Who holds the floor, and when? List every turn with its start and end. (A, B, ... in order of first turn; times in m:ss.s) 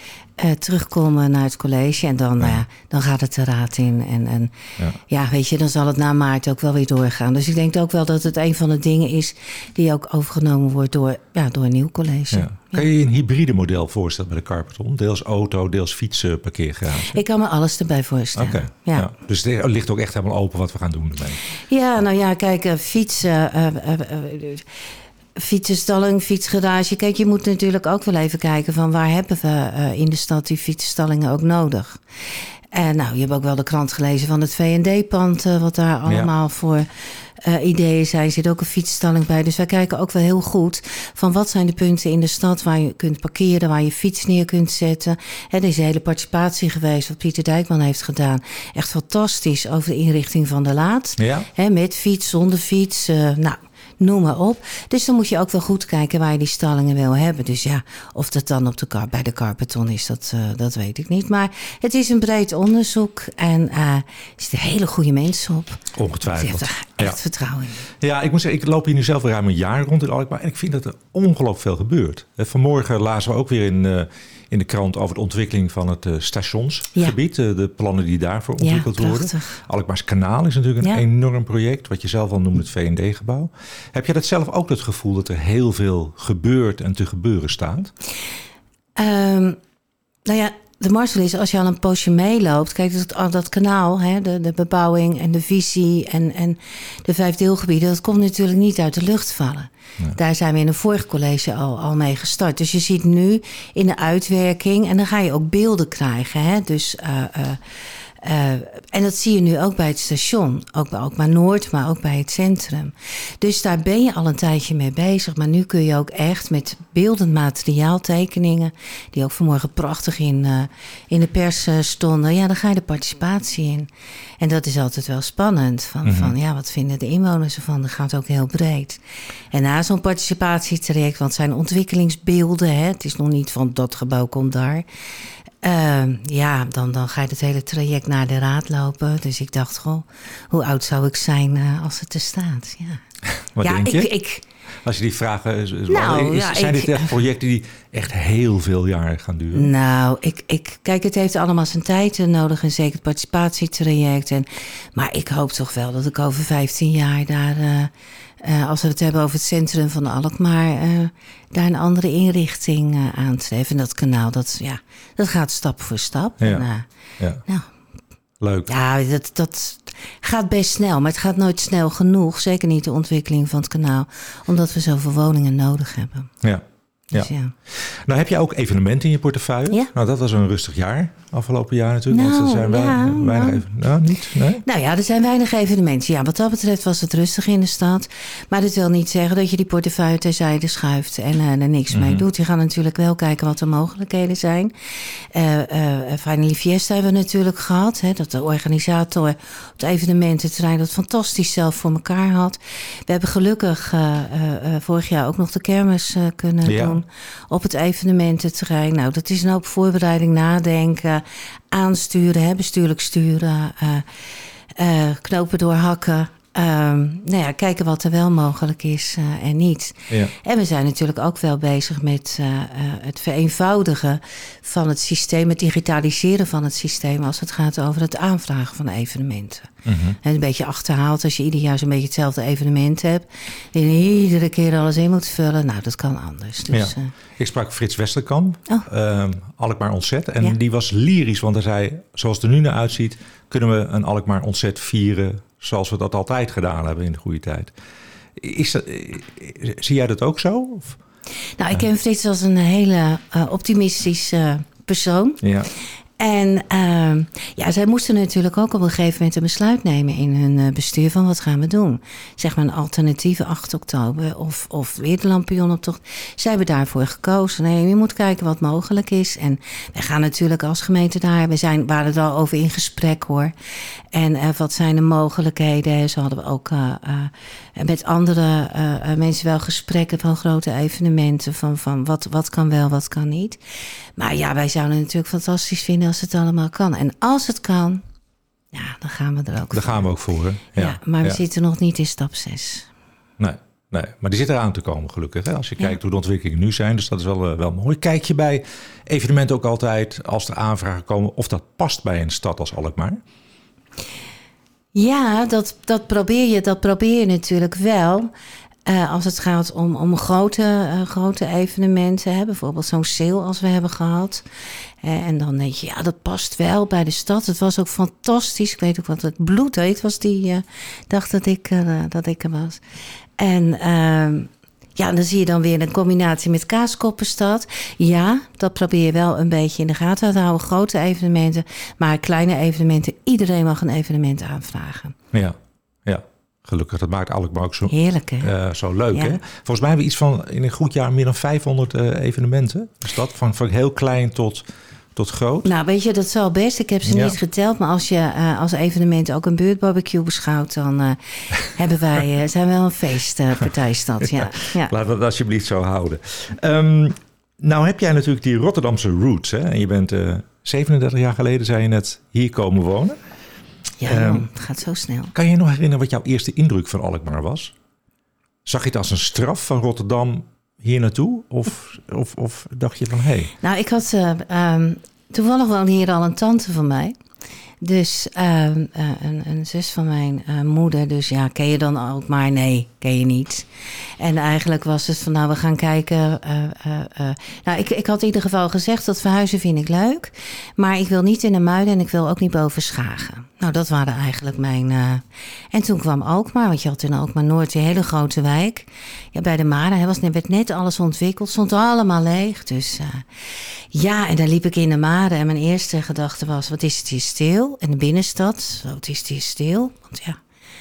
0:00.4-0:04.5 A
0:05.1-0:12.9 A
0:12.3-0:17.2 B
0:17.0-0:19.1 A
0:18.4-0:21.4 B
0:21.6-0:24.7 A
0:25.4-0:32.0 A
0:32.7-0:36.9 A
0:37.4-1:07.9 A
0:51.2-0:51.5 B
1:06.0-1:07.2 B
1:08.0-1:27.9 B
1:18.6-1:19.6 A
1:29.0-1:29.6 A
1:30.3-1:47.6 A
1:48.2-2:03.9 A
2:04.4-2:09.0 A
2:06.0-2:06.3 B
2:09.5-2:14.8 A
2:15.6-2:23.0 A
2:23.6-2:24.1 B
2:23.6-2:24.4 A
2:24.8-2:29.7 B
2:25.9-2:27.2 A
2:29.5-2:46.9 A
2:46.4-2:46.7 B
2:48.4-2:48.7 B
2:48.7-2:56.3 A
2:56.4-3:04.6 B
2:57.1-2:57.5 A
3:02.1-3:03.6 A
3:04.6-3:57.1 A
3:11.9-3:12.2 B
3:26.6-3:27.0 B
3:49.9-3:50.2 B
3:56.7-4:07.7 B
4:08.4-4:11.0 B
4:11.6-4:15.4 A
4:15.4-4:15.7 B
4:16.2-4:33.5 A
4:34.1-4:43.6 A
4:44.2-4:48.0 A
4:48.7-4:50.1 A
4:49.7-4:51.4 B
4:50.8-4:52.9 A
4:53.4-5:03.2 B
5:04.9-5:08.3 A
5:08.9-5:14.4 A
5:15.0-5:22.8 A
5:23.4-5:35.2 A
5:35.3-5:45.7 B
5:37.9-5:38.5 A
5:39.1-5:39.4 A
5:45.6-5:54.9 A
5:47.1-5:47.4 B
5:54.8-6:03.2 B
6:04.0-6:05.3 A
6:04.0-6:04.5 B
6:05.3-6:07.7 B
6:08.6-6:13.5 B
6:13.6-6:17.2 A
6:17.8-6:23.7 A
6:24.2-6:43.3 A
6:43.9-6:50.4 A